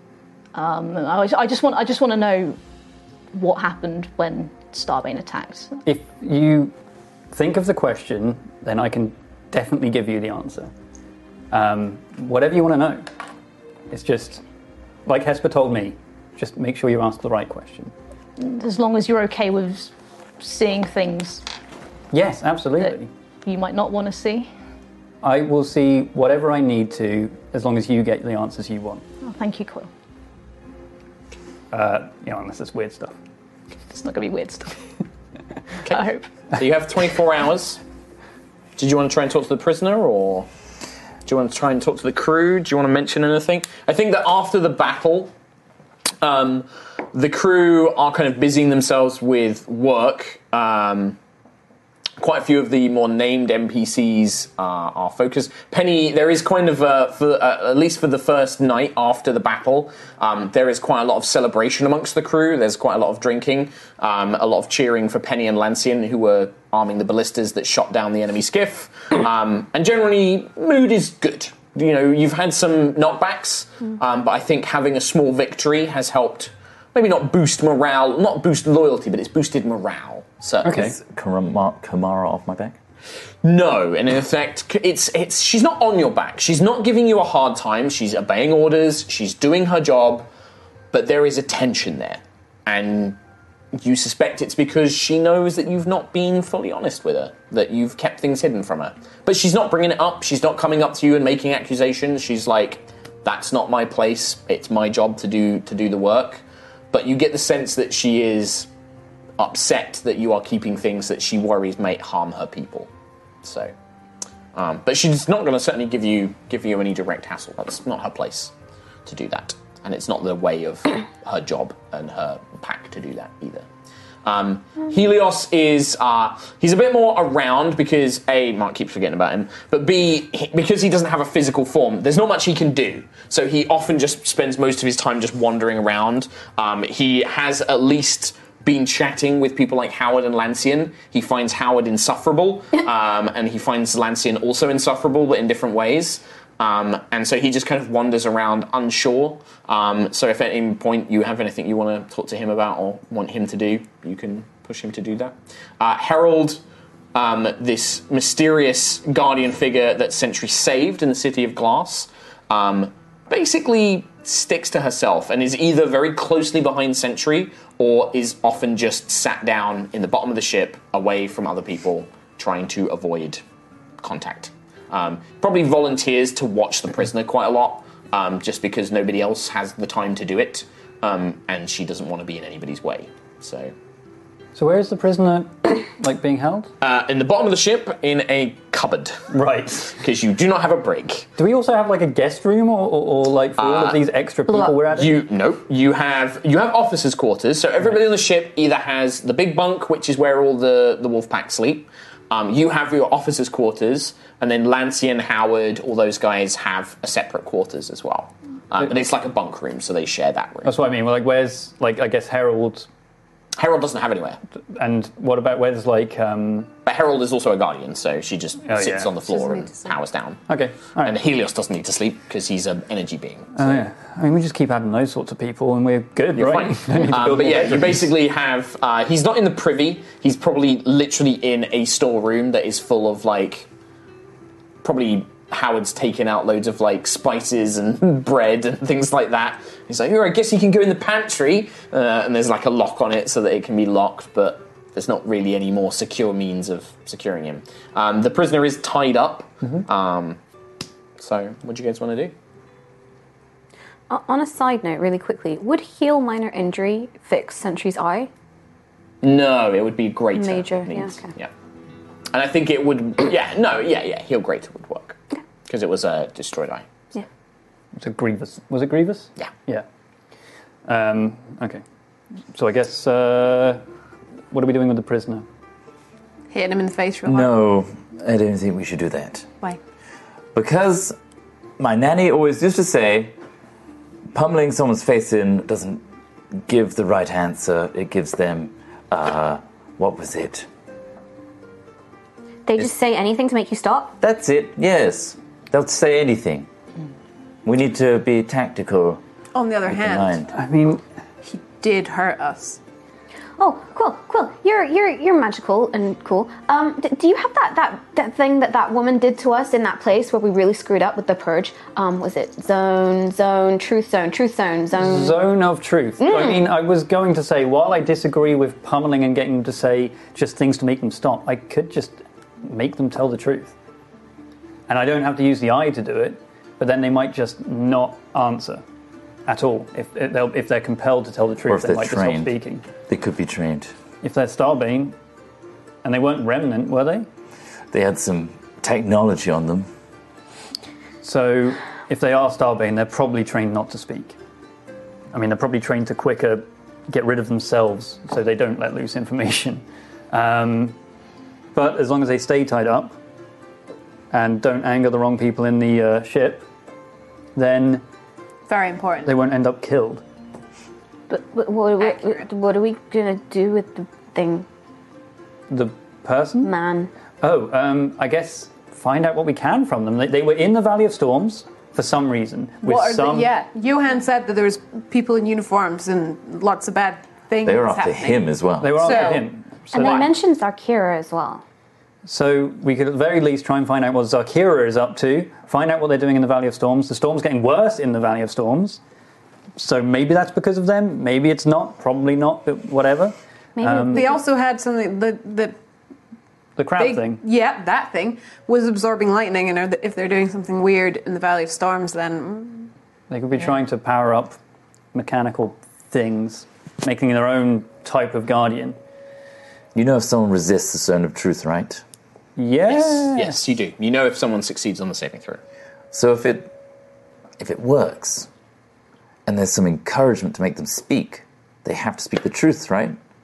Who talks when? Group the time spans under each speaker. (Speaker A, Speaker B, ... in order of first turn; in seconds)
Speaker A: 0.5-2.6, 3.3-5.8, 18.4-21.4, 22.8-24.5, 29.2-29.9, 33.9-34.8, 35.9-36.3
Speaker B: 5.8-6.7, 7.3-10.7, 11.5-13.1, 13.9-14.4, 15.1-17.9, 22.1-23.1, 25.2-29.0, 31.7-33.1, 80.6-80.9, 184.5-186.7, 189.3-189.9, 191.4-195.2, 210.6-212.9, 214.7-216.7, 218.7-219.1, 220.5-221.2, 223.6-228.1, 267.9-269.8, 270.9-271.8, 272.5-273.8, 274.5-275.4, 300.5-301.0, 315.0-323.7, 324.9-328.8, 329.5-332.8, 334.2-335.1, 336.0-337.2, 341.2-344.4, 345.3-350.9, 351.7-353.1, 354.3-356.6, 357.6-358.0, 359.2-360.2, 365.7-366.7, 367.4-373.5, 378.8-380.2, 382.2-389.0, 389.8-394.3, 396.8-397.4, 403.3-404.6, 405.1-409.0, 412.6-413.6
Speaker C: 36.5-37.8, 38.8-40.5, 41.2-45.3, 46.2-51.2, 52.2-80.8, 83.4-90.3, 90.9-93.2, 93.8-108.7, 109.4-112.9, 113.4-113.7, 114.5-118.5, 119.0-123.7, 124.2-156.6, 157.1-173.4, 174.0-183.7, 186.8-189.2, 189.9-191.3, 193.6-210.8, 213.6-214.4, 216.8-220.4, 221.0-223.8, 226.3-233.7, 234.8-250.4, 251.2-252.3, 259.2-261.5, 262.3-266.9, 412.9-415.6
Speaker D: 80.7-82.8, 277.2-279.5, 280.5-281.1, 281.8-283.3, 284.3-286.0, 286.6-290.7, 294.2-296.7, 297.6-299.2, 299.9-300.5, 331.7-332.5, 333.1-333.9, 337.9-339.9, 377.6-379.2, 409.9-412.0, 416.1-416.7, 417.6-418.5, 419.4-423.2
Speaker E: 219.3-219.9, 276.5-277.5, 299.5-300.4, 301.4-302.8, 358.7-359.3, 372.8-378.4, 379.0-380.3, 394.1-395.7, 397.0-402.9
Speaker F: 254.1-258.3, 260.3-261.3, 292.7-294.2, 303.6-315.4, 316.2-316.6, 361.3-364.6, 366.6-367.1, 379.9-381.6, 393.8-394.4